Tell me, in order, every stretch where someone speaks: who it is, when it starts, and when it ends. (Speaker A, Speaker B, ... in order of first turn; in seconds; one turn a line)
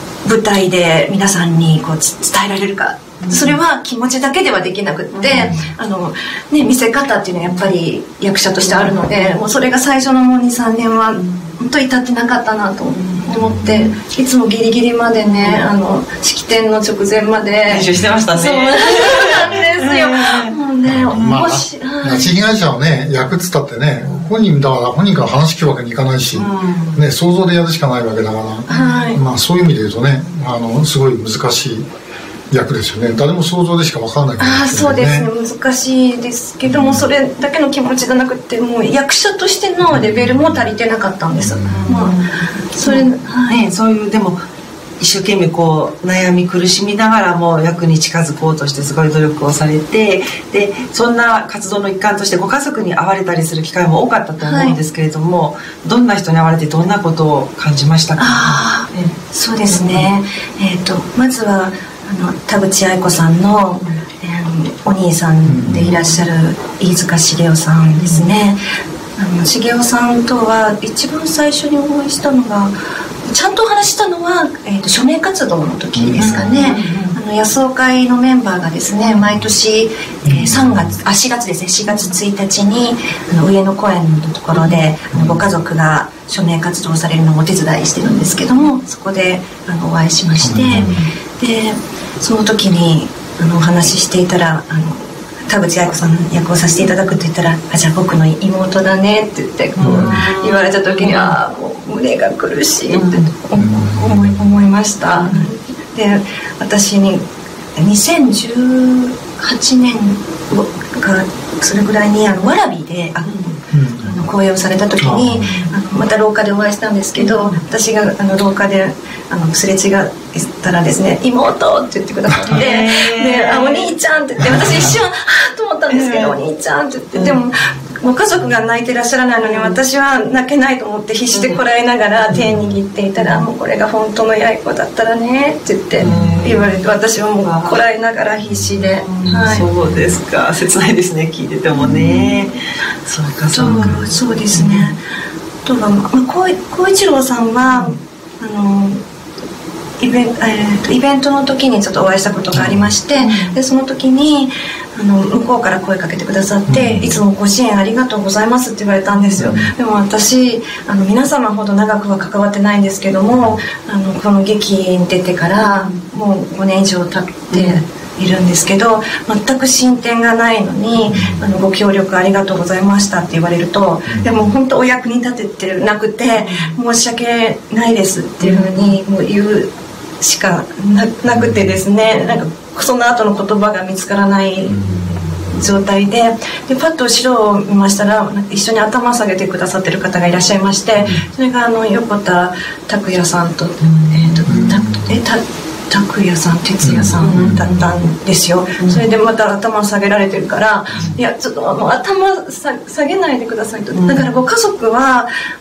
Speaker A: 0.2-22.3
Speaker B: 3.2-3.6
Speaker B: 5.1-5.7
Speaker B: 8.7-9.3
Speaker B: 13.0-13.9
Speaker B: 15.2-15.6
Speaker B: 17.7-20.5
Speaker C: 20.9-31.9
Speaker B: 21.1-21.4
Speaker B: 26.3-27.0
Speaker A: 28.7-29.2
Speaker C: 32.5-35.3
Speaker A: 34.4-43.6
Speaker C: 36.6-37.1
Speaker C: 39.9-40.6
Speaker C: 41.4-41.9
Speaker B: 41.6-44.4
Speaker B: 45.0-59.1
Speaker A: 54.4-54.8
Speaker A: 58.2-68.6
Speaker B: 59.7-60.1
Speaker C: 65.5-66.0
Speaker B: 68.0-68.3
Speaker A: 69.2-72.8
Speaker A: 73.3-107.2
Speaker C: 76.0-76.6
Speaker B: 76.1-77.2
Speaker C: 80.2-80.9
Speaker B: 84.5-84.8
Speaker C: 85.1-85.4
Speaker C: 90.4-91.1
Speaker B: 99.8-101.4
Speaker C: 99.8-100.2
Speaker B: 102.9-103.3
Speaker C: 103.5-104.4
Speaker B: 105.1-105.5
Speaker A: 107.8-139.7
Speaker C: 113.7-114.2
Speaker C: 115.0-115.6
Speaker B: 117.2-117.6
Speaker B: 122.5-123.9
Speaker B: 125.9-126.4
Speaker B: 129.4-129.8
Speaker B: 131.3-131.6
Speaker B: 133.2-133.5
Speaker B: 136.0-136.8
Speaker C: 136.0-136.5
Speaker B: 137.4-137.8
Speaker B: 138.9-144.9
Speaker C: 139.3-140.0
Speaker C: 141.8-142.4
Speaker A: 142.1-142.4
Speaker A: 143.5-145.0
Speaker A: 145.7-149.0
Speaker B: 147.7-147.9
Speaker A: 150.0-184.9
Speaker C: 152.5-152.9
Speaker B: 153.2-153.6
Speaker C: 156.7-157.2
Speaker C: 159.4-159.7
Speaker C: 163.3-163.6
Speaker B: 165.6-166.0
Speaker B: 167.5-167.8
Speaker C: 171.1-171.4
Speaker C: 174.1-174.5
Speaker B: 176.4-176.8
Speaker B: 178.4-178.9
Speaker C: 181.3-181.8
Speaker C: 184.7-185.5
Speaker A: 185.4-205.3
Speaker C: 191.0-191.3
Speaker B: 193.8-194.8
Speaker C: 194.5-195.2
Speaker C: 196.8-198.0
Speaker B: 197.2-197.7
Speaker B: 203.9-204.3